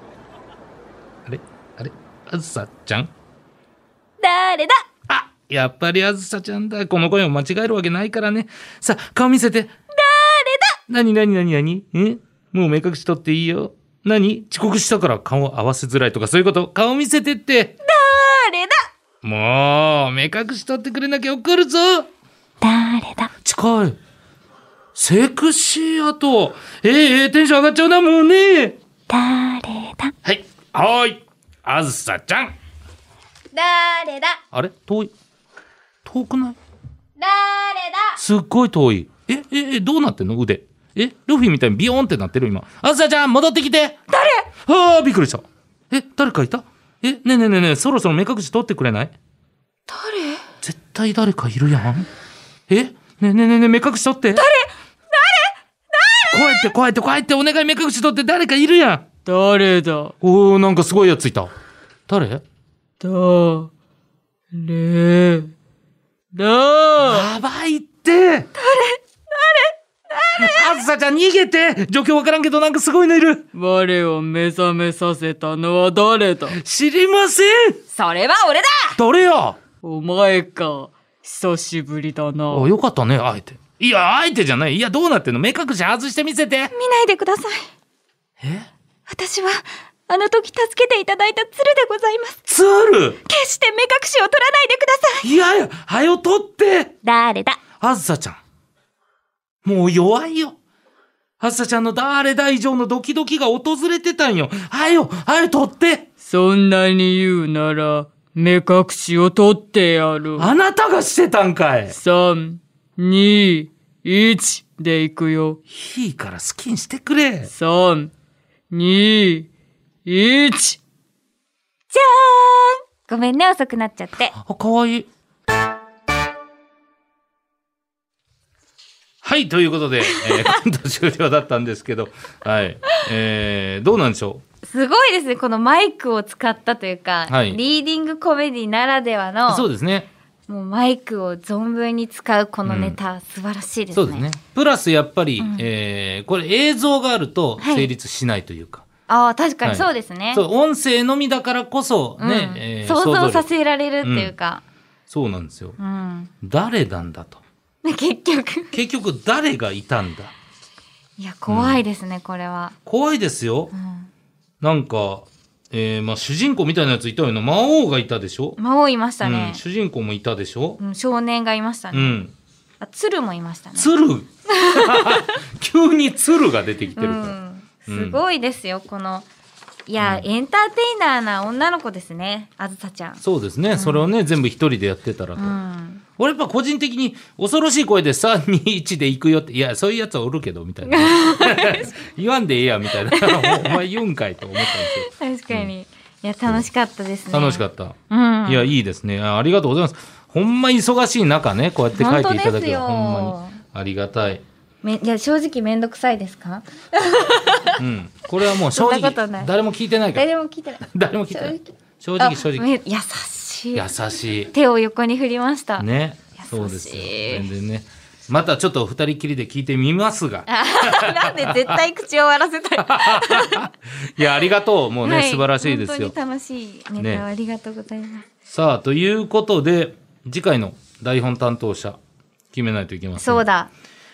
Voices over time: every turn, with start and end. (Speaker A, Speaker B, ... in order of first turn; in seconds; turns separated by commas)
Speaker A: 1.3-3.1, Speaker B: 4.2-4.8, Speaker A: 5.1-9.7, Speaker B: 9.9-10.8, Speaker A: 10.9-17.8, Speaker B: 17.9-18.9, Speaker A: 19.2-22.1, Speaker B: 22.6-23.3, Speaker A: 23.4-24.0, Speaker A: 24.9-28.8, Speaker B: 29.1-30.1, Speaker A: 30.2-32.5, Speaker B: 33.5-34.4, Speaker A: 34.5-35.1, Speaker A: 36.0-36.6, Speaker B: 37.2-38.2, Speaker A: 38.2-44.0, Speaker B: 44.1-44.5, Speaker A: 44.6-49.1, Speaker B: 49.9-50.4, Speaker A: 50.6-52.1, Speaker A: 52.7-54.5, Speaker B: 54.4-56.7, Speaker A: 56.3-59.1, Speaker C: 59.3-60.1, Speaker A: 60.2-61.5, Speaker A: 62.1-62.4, Speaker C: 63.0-63.7, Speaker C: 64.5-65.5, Speaker C: 66.3-67.3, Speaker A: 67.0-68.5, Speaker B: 68.6-70.8, Speaker A: 70.4-73.5, Speaker C: 73.5-76.6, Speaker A: 76.5-77.8, Speaker B: 77.9-79.0, Speaker A: 79.0-79.6, Speaker C: 79.8-82.7, Speaker A: 82.5-86.7, Speaker B: 86.7-87.7, Speaker A: 88.4-88.7, Speaker B: 89.1-92.4, Speaker A: 92.5-93.2, Speaker B: 93.2-95.3, Speaker A: 95.2-96.9, Speaker B: 97.0-97.6, Speaker A: 97.8-98.4, Speaker A: 99.7-100.6, Speaker A: 101.4-106.1, Speaker C: 106.2-110.5, Speaker A: 110.4-112.0, Speaker C: 111.9-115.6, Speaker A: 115.7-117.5, Speaker C: 117.5-118.1, Speaker C: 118.7-119.5, Speaker C: 120.1-120.8, Speaker B: 121.9-124.3, Speaker A: 124.3-125.1, Speaker A: 129.2-134.4, Speaker B: 134.6-139.7, Speaker A: 137.3-137.6, Speaker A: 139.5-140.1, Speaker B: 140.5-144.2, Speaker A: 142.7-143.0, Speaker A: 143.9-148.8, Speaker B: 145.4-145.7, Speaker B: 147.6-147.9, Speaker B: 149.1-150.4, Speaker A: 149.6-153.5, Speaker B: 152.2-154.6, Speaker A: 154.0-154.3, Speaker A: 155.1-155.8, Speaker B: 155.8-156.3, Speaker A: 156.4-157.4, Speaker B: 157.8-158.8, Speaker A: 158.7-160.3, Speaker B: 161.2-162.8, Speaker A: 161.5-161.8, Speaker A: 162.9-163.7, Speaker B: 163.7-164.1, Speaker A: 164.6-168.6, Speaker B: 168.6-169.6, Speaker A: 169.2-170.8, Speaker B: 170.8-172.2, Speaker A: 171.9-172.3, Speaker B: 172.8-173.9, Speaker A: 173.8-178.2, Speaker B: 174.5-175.2, Speaker B: 177.0-179.3, Speaker B: 179.9-183.2, Speaker A: 180.0-180.3, Speaker A: 183.2-185.5, Speaker B: 183.7-184.1, Speaker B: 185.4-186.0, Speaker A: 186.2-195.7, Speaker B: 190.8-191.9, Speaker B: 193.1-193.8, Speaker B: 194.6-198.7, Speaker A: 197.3-204.4, Speaker B: 201.9-203.6, Speaker B: 204.8-207.8, Speaker A: 207.8-210.3, Speaker B: 208.7-209.5, Speaker B: 210.2-211.7, Speaker A: 210.9-212.7, Speaker B: 212.2-213.9, Speaker A: 213.8-214.5, Speaker B: 214.5-217.5, Speaker A: 215.8-221.8, Speaker B: 220.5-223.7, Speaker A: 222.8-226.1, Speaker B: 225.0-228.3, Speaker A: 227.0-227.2, Speaker A: 228.5-232.0, Speaker A: 232.5-233.4, Speaker B: 233.2-233.7